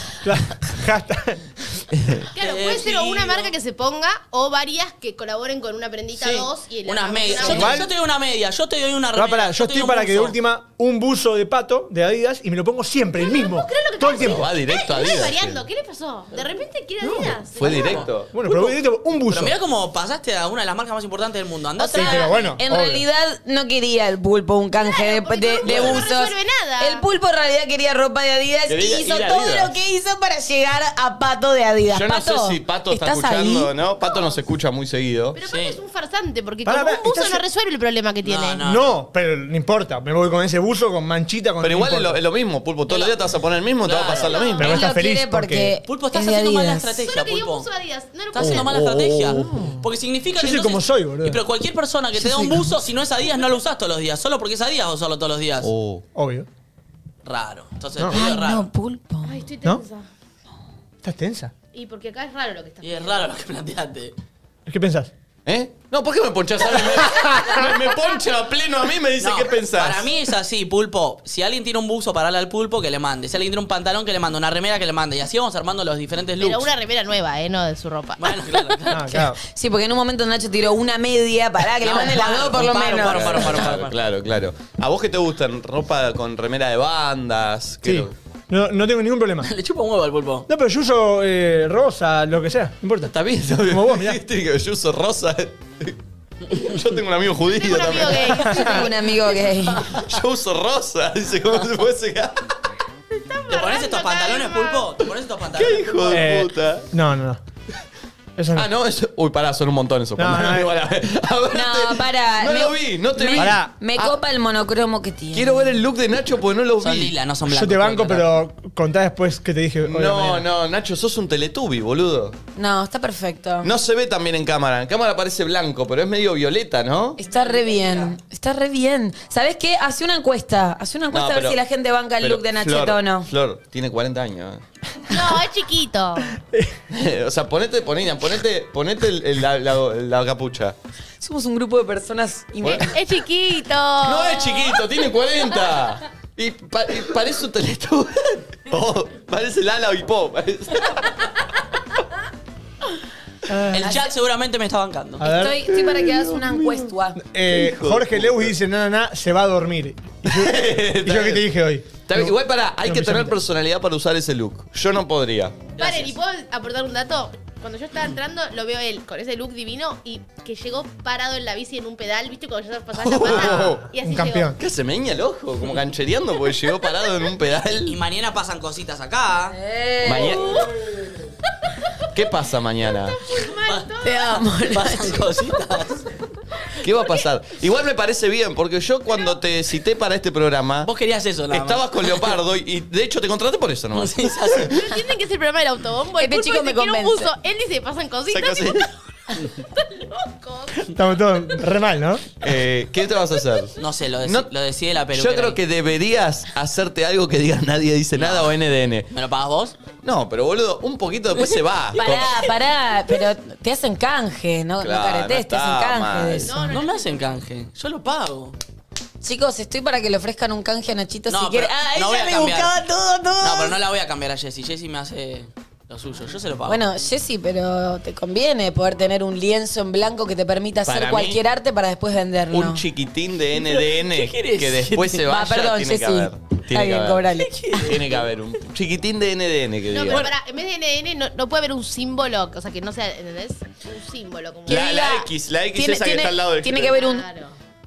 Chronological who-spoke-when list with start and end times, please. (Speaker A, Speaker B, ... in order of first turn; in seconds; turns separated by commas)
Speaker A: 0.2-1.8, Speaker B: 1.9-2.2, Speaker C: 2.3-7.8, Speaker D: 2.4-3.5, Speaker D: 6.2-10.4, Speaker A: 7.4-7.9, Speaker A: 9.2-14.5, Speaker C: 13.1-18.1, Speaker B: 14.1-15.6, Speaker A: 17.0-17.4, Speaker B: 17.5-18.3, Speaker D: 17.6-18.7, Speaker A: 18.2-19.6, Speaker D: 19.3-22.5, Speaker E: 21.8-33.7, Speaker A: 21.9-23.0, Speaker C: 22.0-22.5, Speaker C: 24.8-27.0, Speaker B: 25.6-26.0, Speaker B: 28.7-29.7, Speaker B: 31.9-35.4, Speaker C: 34.0-34.4, Speaker C: 35.3-38.6, Speaker D: 35.5-35.8, Speaker A: 36.6-37.4, Speaker D: 38.2-38.9, Speaker A: 38.6-42.2, Speaker B: 41.6-44.7, Speaker D: 42.9-43.1, Speaker D: 43.8-44.6, Speaker C: 44.1-44.8, Speaker A: 44.6-45.7, Speaker E: 44.6-47.0, Speaker D: 45.9-47.7, Speaker C: 47.0-48.8, Speaker D: 48.3-55.7, Speaker B: 48.4-49.5, Speaker A: 49.3-49.8, Speaker A: 50.4-51.4, Speaker A: 52.3-52.6, Speaker B: 55.6-56.0, Speaker A: 56.1-56.5, Speaker D: 57.2-58.7, Speaker A: 58.0-58.2, Speaker E: 58.1-59.4, Speaker C: 59.2-60.1, Speaker A: 61.0-61.5, Speaker C: 61.7-63.3, Speaker D: 62.8-64.1, Speaker A: 64.7-65.1, Speaker B: 65.5-70.1, Speaker D: 69.2-76.7, Speaker C: 76.4-78.9, Speaker D: 78.2-79.1, Speaker A: 78.9-79.4, Speaker E: 79.2-83.5, Speaker D: 81.8-84.0, Speaker B: 83.0-88.1, Speaker A: 87.8-89.5, Speaker D: 89.4-90.5, Speaker A: 90.5-94.2, Speaker B: 93.1-96.0, Speaker B: 96.5-98.6, Speaker C: 97.5-98.9, Speaker E: 98.4-99.8, Speaker D: 99.5-100.0, Speaker B: 99.8-102.5, Speaker C: 103.1-104.9, Speaker D: 103.5-106.3, Speaker B: 105.5-106.9, Speaker A: 106.1-107.4, Speaker A: 108.4-108.7, Speaker B: 108.5-114.1, Speaker A: 110.2-110.7, Speaker E: 111.5-115.8, Speaker A: 113.4-113.7, Speaker B: 115.3-117.1, Speaker D: 116.8-118.3, Speaker A: 117.5-120.4, Speaker B: 119.8-122.3, Speaker E: 122.5-123.7, Speaker B: 123.6-127.2, Speaker E: 127.2-133.3, Speaker D: 127.4-128.1, Speaker B: 131.1-131.6, Speaker B: 132.2-134.6, Speaker C: 135.1-136.3, Speaker A: 136.3-136.7, Speaker B: 136.9-140.8, Speaker E: 141.2-142.9, Speaker B: 142.6-142.9, Speaker C: 142.8-144.8, Speaker B: 144.0-151.2, Speaker A: 153.5-153.9, Speaker D: 153.7-155.2, Speaker A: 155.2-155.5, Speaker E: 155.2-157.2, Speaker B: 155.7-156.9, Speaker A: 157.2-162.3, Speaker B: 157.4-158.5, Speaker B: 160.2-161.4, Speaker B: 162.1-165.6, Speaker A: 162.8-163.4, Speaker D: 165.7-166.2, Speaker C: 165.8-174.5, Speaker B: 172.9-173.9, Speaker A: 173.4-174.6, Speaker B: 174.6-177.9, Speaker D: 177.8-179.6, Speaker E: 179.5-180.4, Speaker B: 180.0-180.4, Speaker C: 180.1-180.7, Speaker B: 182.1-183.2, Speaker C: 183.3-184.5, Speaker D: 183.6-186.0, Speaker E: 184.0-185.3, Speaker B: 186.8-190.9, Speaker D: 190.8-192.4, Speaker B: 191.5-194.8, Speaker D: 193.9-194.7, Speaker C: 194.7-201.0, Speaker E: 196.2-197.3, Speaker B: 198.3-198.9, Speaker A: 200.8-202.2, Speaker B: 202.4-203.7, Speaker D: 203.8-205.6, Speaker B: 204.2-204.5, Speaker B: 205.1-209.1, Speaker D: 208.2-208.5, Speaker D: 209.1-209.8, Speaker B: 210.0-212.3, Speaker D: 211.5-212.5, Speaker E: 212.0-216.5, Speaker B: 214.8-216.5, Speaker C: 216.4-217.2, Speaker D: 216.5-218.6, Speaker E: 219.2-223.8, Speaker D: 221.3-222.8, Speaker D: 223.4-226.8, Speaker E: 226.7-232.8, Speaker B: 230.8-231.4, Speaker B: 232.5-240.3, Speaker D: 233.5-235.2, Speaker E: 235.3-237.8, Speaker D: 237.4-238.2, Speaker C: 239.9-245.1, Speaker B: 244.7-247.0, Speaker E: 244.7-247.2, Speaker C: 246.8-247.5